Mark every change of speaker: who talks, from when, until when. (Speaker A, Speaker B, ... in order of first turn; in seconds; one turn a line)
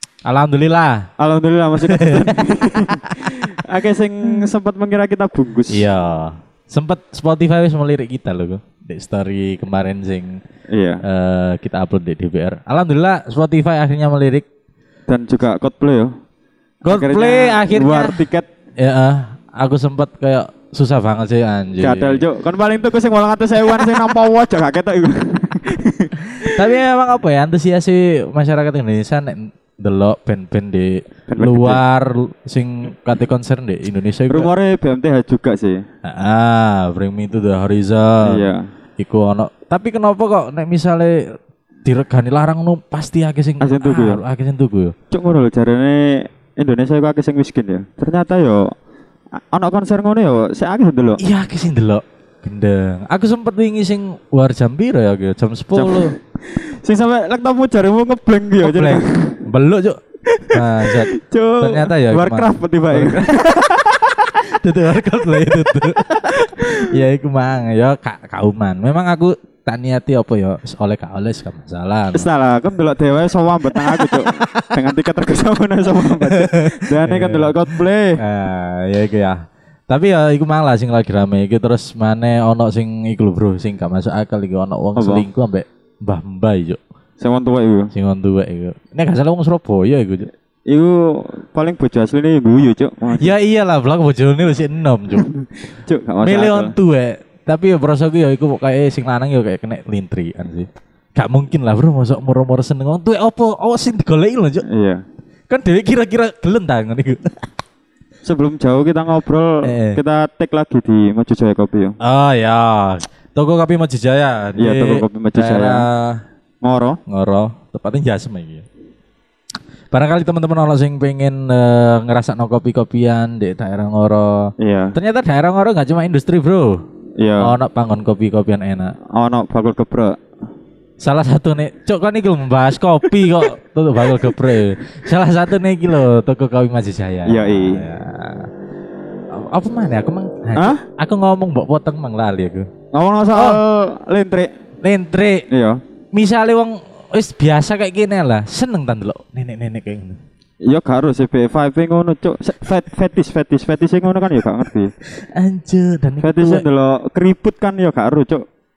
Speaker A: 0.2-1.1
Speaker B: 1.2-5.9
Speaker A: 1.8-3.4
Speaker A: 5.7-10.4
Speaker B: 10.7-11.0
Speaker A: 11.0-14.4
Speaker B: 15.1-16.1
Speaker A: 16.8-18.2
Speaker B: 16.9-18.4
Speaker A: 18.8-22.2
Speaker B: 21.8-26.6
Speaker A: 26.4-34.5
Speaker B: 31.3-31.8
Speaker B: 34.3-35.8
Speaker A: 36.0-44.9
Speaker B: 38.2-38.7
Speaker B: 43.6-44.2
Speaker B: 45.1-48.7
Speaker B: 49.4-51.2
Speaker A: 51.2-56.1
Speaker B: 55.7-59.4
Speaker A: 58.6-63.8
Speaker B: 60.3-64.0
Speaker A: 64.3-72.3
Speaker B: 72.1-78.2
Speaker A: 73.8-74.7
Speaker A: 76.1-86.8
Speaker B: 85.0-85.2
Speaker B: 87.2-87.9
Speaker A: 87.9-90.3
Speaker B: 90.7-93.3
Speaker A: 93.1-95.3
Speaker B: 95.2-96.7
Speaker A: 96.2-104.6
Speaker B: 104.7-105.0
Speaker A: 105.5-107.4
Speaker B: 108.2-112.0
Speaker A: 109.6-110.0
Speaker A: 112.0-116.2
Speaker B: 114.6-115.9
Speaker B: 116.6-117.0
Speaker A: 117.1-118.7
Speaker A: 119.9-126.8
Speaker B: 124.6-125.0
Speaker B: 127.2-127.5
Speaker A: 127.4-128.9
Speaker B: 129.1-130.2
Speaker A: 131.0-138.5
Speaker B: 137.2-137.8
Speaker A: 139.3-142.7
Speaker B: 140.6-140.8
Speaker B: 142.9-144.5
Speaker A: 143.3-143.6
Speaker A: 144.8-145.4
Speaker B: 145.5-145.8
Speaker A: 146.1-150.2
Speaker B: 150.6-154.9
Speaker A: 155.1-156.7
Speaker B: 156.2-158.4